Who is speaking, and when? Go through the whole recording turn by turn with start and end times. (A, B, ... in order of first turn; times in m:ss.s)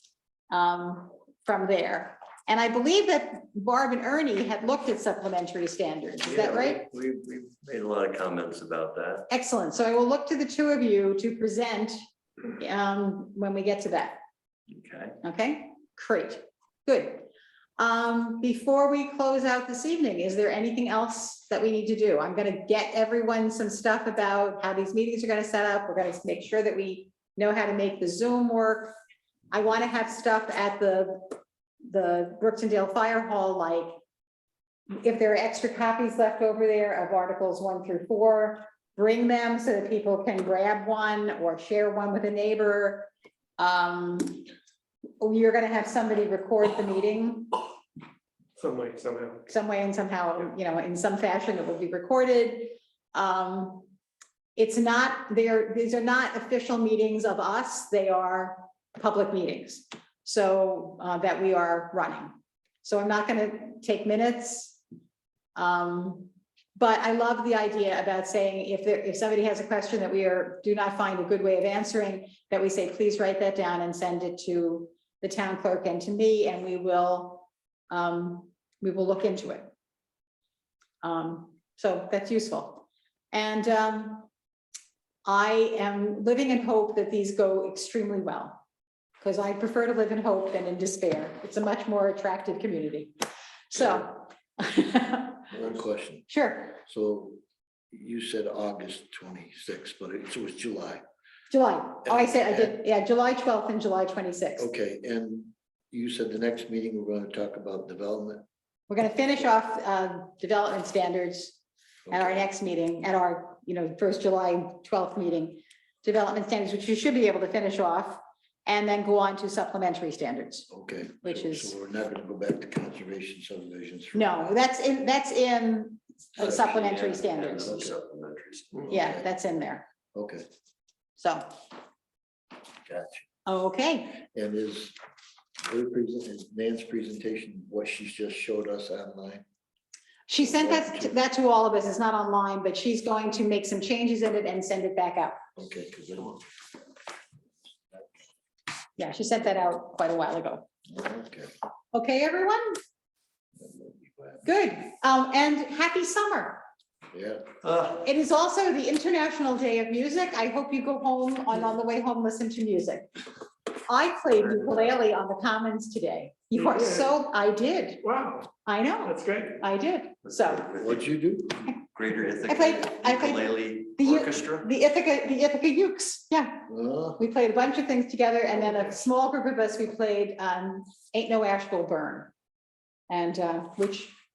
0:00.5-0:06.8 A
0:06.2-0:09.3 B
0:09.3-0:12.0 A
0:12.6-0:14.2 A
0:14.7-0:15.2 B
0:15.2-0:28.9 A
0:29.5-0:34.0 A
0:35.0-0:44.4 A
0:45.2-0:47.5 A
0:48.6-0:49.4 C
0:49.5-0:53.9 A
0:54.6-1:04.8 A
1:05.6-1:19.7 A
1:21.0-1:24.3 A
1:25.3-1:28.6 A
1:29.2-1:33.2 A
1:33.7-1:35.5 A
1:35.5-1:36.3 D
1:36.3-1:36.8 A
1:36.8-1:37.4 D
1:37.9-1:41.0 D
1:41.5-1:44.7 A
1:42.0-1:42.8 D
1:44.6-1:48.4 D
1:48.9-1:51.6 A
1:52.1-1:52.4 D
1:52.1-2:00.7 A
2:00.7-2:04.6 D
2:01.2-2:01.7 A
2:04.1-2:07.8 A
2:06.4-2:08.9 B
2:07.6-2:08.0 D
2:08.9-2:09.2 D
2:08.9-2:09.9 A
2:10.1-2:10.5 D
2:11.2-2:11.5 A
2:12.9-2:13.2 D
2:13.5-2:14.2 A
2:14.3-2:15.0 D
2:15.6-2:19.4 D
2:20.3-2:25.4 A
2:20.4-2:21.2 D
2:25.6-2:26.4 D
2:29.0-2:30.7 A
2:30.9-2:31.5 D
2:31.9-2:32.8 A
2:33.6-2:34.4 D
2:34.4-2:36.6 A
2:37.1-2:37.6 D
2:37.6-2:38.0 B
2:38.0-2:43.1 A
2:43.9-2:48.0 A
2:46.6-2:47.1 C
2:48.0-2:48.5 C
2:48.6-2:50.7 A
2:49.0-2:49.6 C
2:50.4-2:51.0 B
2:50.7-2:51.8 D
2:51.9-2:54.7 B
2:52.4-3:02.3 A
2:56.7-2:57.2 D
3:03.1-3:04.1 A